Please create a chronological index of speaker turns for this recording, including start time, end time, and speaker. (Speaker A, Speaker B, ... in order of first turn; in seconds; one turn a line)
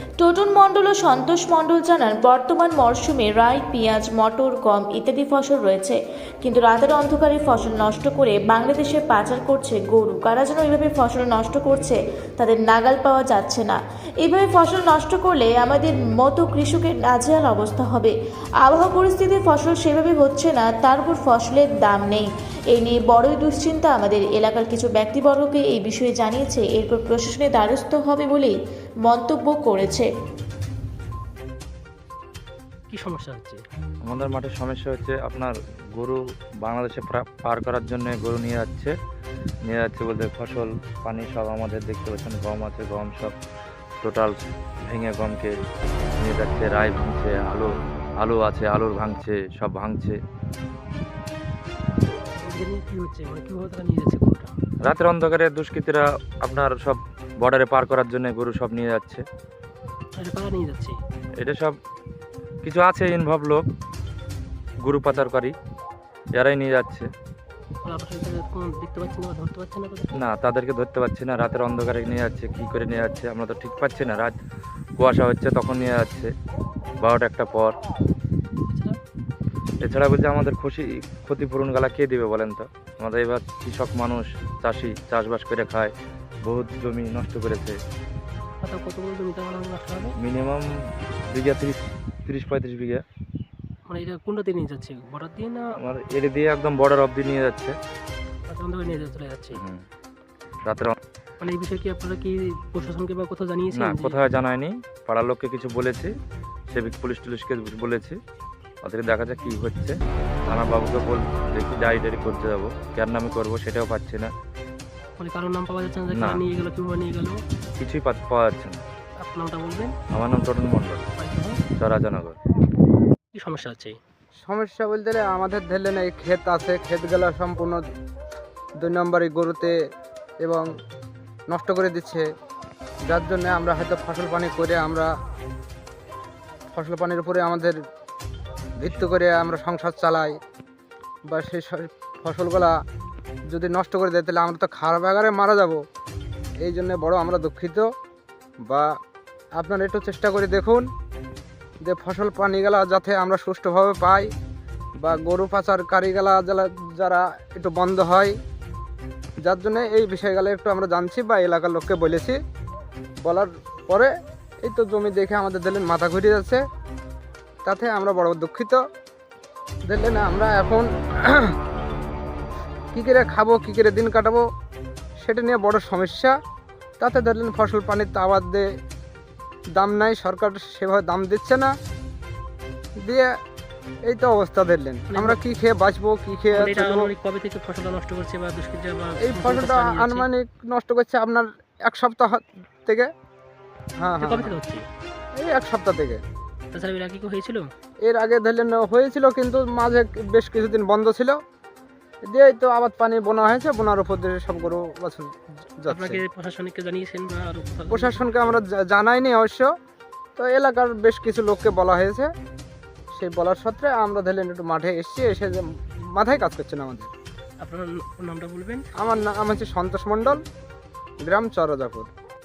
Speaker A: 0.2-28.5
Speaker A: 29.1-30.1
Speaker B: 32.9-33.6
Speaker C: 34.1-38.9
Speaker C: 39.7-43.3
Speaker C: 44.0-44.3
Speaker C: 44.9-45.5
Speaker C: 46.2-47.7
Speaker C: 48.2-50.1
Speaker B: 52.4-54.5
Speaker C: 54.8-59.2
Speaker B: 60.1-61.0
Speaker C: 61.4-61.7
Speaker C: 62.6-63.6
Speaker C: 64.8-65.5
Speaker C: 66.4-67.1
Speaker B: 67.8-70.3
Speaker C: 70.2-74.3
Speaker C: 75.0-76.3
Speaker C: 77.0-77.7
Speaker B: 78.7-79.0
Speaker C: 79.8-85.9
Speaker C: 86.5-87.8
Speaker B: 88.6-90.1
Speaker C: 90.2-90.6
Speaker C: 91.3-93.0
Speaker B: 93.9-95.7
Speaker C: 95.8-97.7
Speaker B: 98.5-99.6
Speaker C: 100.7-101.0
Speaker B: 101.4-104.2
Speaker C: 103.7-106.1
Speaker C: 106.7-108.2
Speaker C: 108.8-114.3
Speaker B: 110.5-110.8
Speaker B: 115.2-117.4
Speaker C: 116.1-116.4
Speaker C: 117.8-118.8
Speaker B: 119.2-119.9
Speaker C: 120.1-121.0
Speaker B: 121.2-121.6
Speaker C: 121.8-122.3
Speaker B: 123.3-124.0
Speaker D: 124.4-127.8
Speaker D: 128.8-129.7
Speaker D: 130.4-130.7
Speaker D: 131.5-132.3
Speaker D: 133.1-135.1
Speaker D: 136.7-137.8
Speaker D: 138.8-140.3
Speaker D: 141.3-142.7
Speaker D: 143.5-145.8
Speaker D: 146.6-147.9
Speaker D: 149.6-150.9
Speaker D: 151.8-154.3
Speaker D: 155.0-158.3
Speaker D: 159.4-162.4
Speaker D: 163.2-164.1
Speaker D: 164.6-166.6
Speaker D: 167.6-168.8
Speaker D: 169.9-171.5
Speaker D: 172.9-174.4
Speaker D: 175.2-176.4
Speaker D: 177.0-178.7
Speaker D: 179.8-181.7
Speaker D: 183.0-183.3
Speaker D: 184.1-187.1
Speaker B: 185.1-185.4
Speaker B: 186.5-190.3
Speaker D: 189.2-193.1
Speaker D: 194.0-194.6
Speaker B: 194.2-194.8
Speaker D: 195.4-196.2
Speaker B: 196.7-197.7
Speaker D: 198.1-201.4
Speaker D: 202.2-206.2
Speaker B: 205.9-208.5
Speaker D: 207.9-209.7
Speaker D: 210.3-212.3
Speaker D: 213.1-217.1
Speaker B: 217.6-218.8
Speaker D: 219.0-220.4
Speaker D: 221.2-222.1